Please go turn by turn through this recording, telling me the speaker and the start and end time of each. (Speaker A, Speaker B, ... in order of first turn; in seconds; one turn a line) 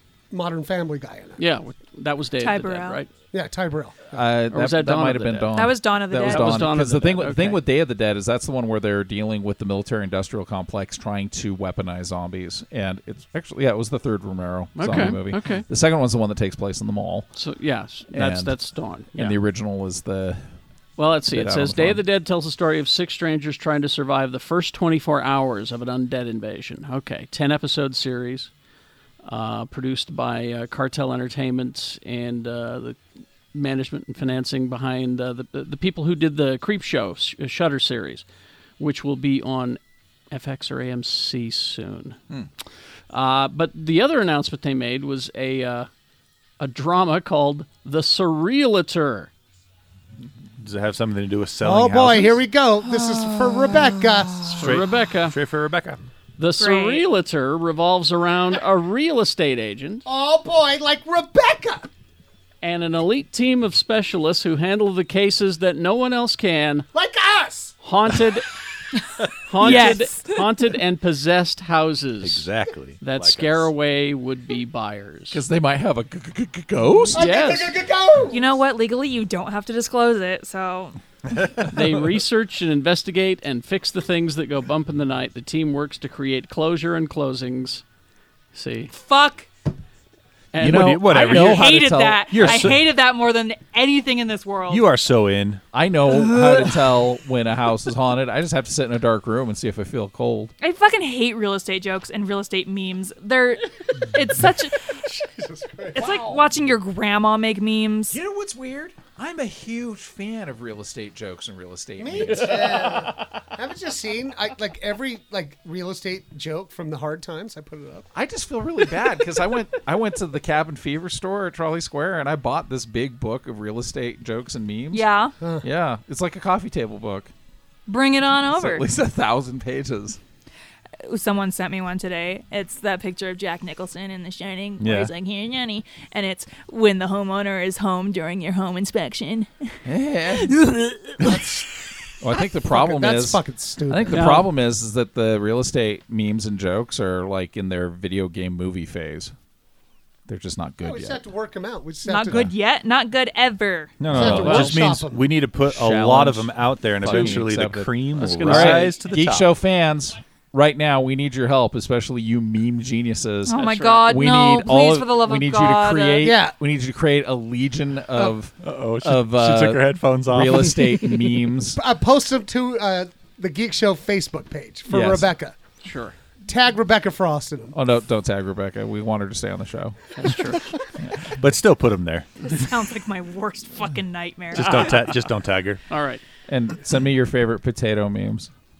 Speaker A: 0.3-1.4
Speaker B: 1.4-3.1
Speaker C: 2.4-3.0
Speaker A: 3.3-4.2
Speaker D: 4.1-17.3
Speaker B: 4.5-5.5
Speaker C: 5.5-6.7
Speaker B: 6.2-7.6
Speaker B: 14.8-15.6
Speaker B: 17.4-19.4
Speaker D: 18.1-18.6
Speaker D: 19.1-20.5
Speaker B: 21.0-28.5
Speaker D: 21.3-22.0
Speaker B: 29.2-33.0
Speaker B: 33.5-38.2
Speaker B: 38.8-39.8
Speaker B: 40.3-42.2
Speaker B: 43.1-45.9
Speaker B: 46.6-49.3
Speaker E: 50.6-52.4
Speaker A: 51.6-54.6
Speaker C: 53.5-53.8
Speaker B: 54.5-55.4
Speaker E: 54.6-56.0
Speaker B: 56.4-60.0
Speaker C: 56.6-57.0
Speaker A: 60.0-61.9
Speaker B: 62.6-66.9
Speaker A: 66.9-67.7
Speaker B: 67.8-68.5
Speaker B: 69.5-72.5
Speaker E: 69.6-70.0
Speaker C: 69.6-70.5
Speaker E: 72.2-73.7
Speaker B: 73.0-75.4
Speaker D: 75.3-77.3
Speaker A: 77.1-78.4
Speaker B: 77.1-77.7
Speaker C: 78.3-81.0
Speaker E: 81.3-82.0
Speaker B: 81.7-87.8
Speaker B: 88.5-88.9
Speaker C: 88.9-89.5
Speaker B: 90.5-91.6
Speaker D: 90.6-92.7
Speaker E: 90.6-92.8
Speaker C: 91.0-94.9
Speaker E: 94.7-95.6
Speaker D: 95.7-100.5
Speaker C: 100.6-104.9
Speaker A: 105.2-106.4
Speaker C: 105.9-108.2
Speaker D: 108.1-113.0
Speaker A: 112.0-118.1
Speaker D: 118.1-125.1
Speaker C: 124.9-125.3
Speaker D: 125.6-127.3
Speaker C: 127.9-128.9
Speaker D: 128.5-130.2
Speaker C: 131.0-139.7
Speaker E: 134.8-135.1
Speaker D: 139.8-140.6
Speaker C: 140.3-141.4
Speaker A: 141.2-141.7
Speaker D: 142.2-149.3
Speaker A: 142.7-144.3
Speaker B: 144.1-144.5
Speaker D: 150.3-151.2
Speaker A: 150.8-152.4
Speaker C: 152.0-154.0
Speaker E: 154.0-159.5
Speaker A: 154.1-155.3
Speaker D: 154.1-154.7
Speaker B: 154.2-154.8
Speaker D: 155.6-171.8
Speaker B: 157.0-157.4
Speaker B: 158.2-159.0
Speaker C: 163.4-166.3
Speaker A: 166.2-166.5
Speaker E: 168.6-170.9
Speaker A: 171.7-175.6
Speaker D: 174.9-175.3
Speaker B: 175.8-176.1
Speaker A: 176.4-177.8
Speaker D: 177.7-180.0
Speaker B: 180.2-180.7
Speaker D: 181.0-181.3
Speaker E: 181.3-182.6
Speaker C: 182.5-185.2
Speaker E: 184.5-185.8
Speaker B: 184.6-184.9
Speaker B: 185.9-186.2
Speaker D: 186.5-188.5